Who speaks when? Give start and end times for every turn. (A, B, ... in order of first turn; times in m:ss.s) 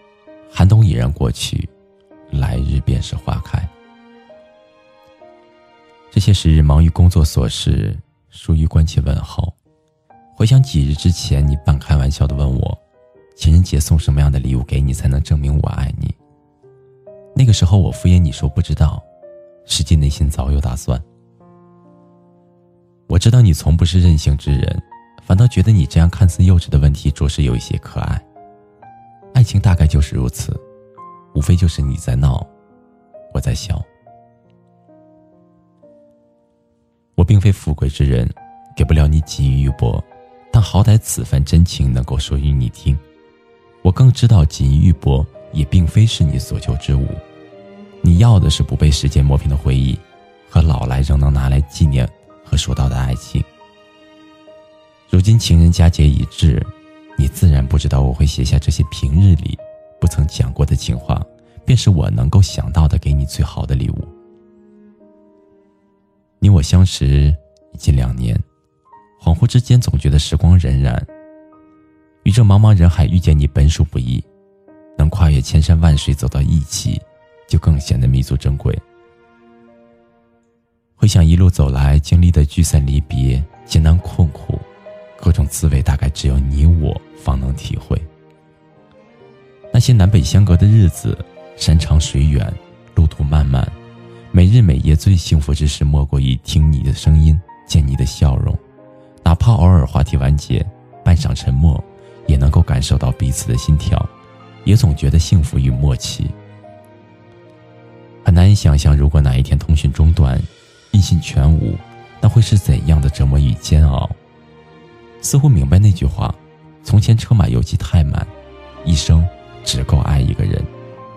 0:00.5-0:01.7 A
0:02.3-0:03.7 A
0:06.1-0:09.6 A
0:10.3-0:12.8 A
0:13.3-0:16.2 A
0:17.3-0:19.0 A
0:19.6-0:21.0 A
0:23.1-0:28.2 A
0:29.3-0:30.6 A
0:31.3-0:32.5 A
0:33.3-0:33.9 A
0:37.2-0:43.0 A
0:43.8-0:47.2 A
0:48.0-0:53.5 A
0:55.1-1:04.1 A
1:06.4-1:08.4 A
1:09.2-1:11.1 A
1:12.2-1:14.3 A
1:15.0-1:18.8 A
1:21.0-1:28.1 A
1:29.7-1:33.8 A
1:34.3-1:38.6 A
1:39.2-1:44.1 A
1:44.6-1:46.4 A
1:48.2-1:54.2 A
1:55.2-1:58.3 A
1:58.8-2:00.7 A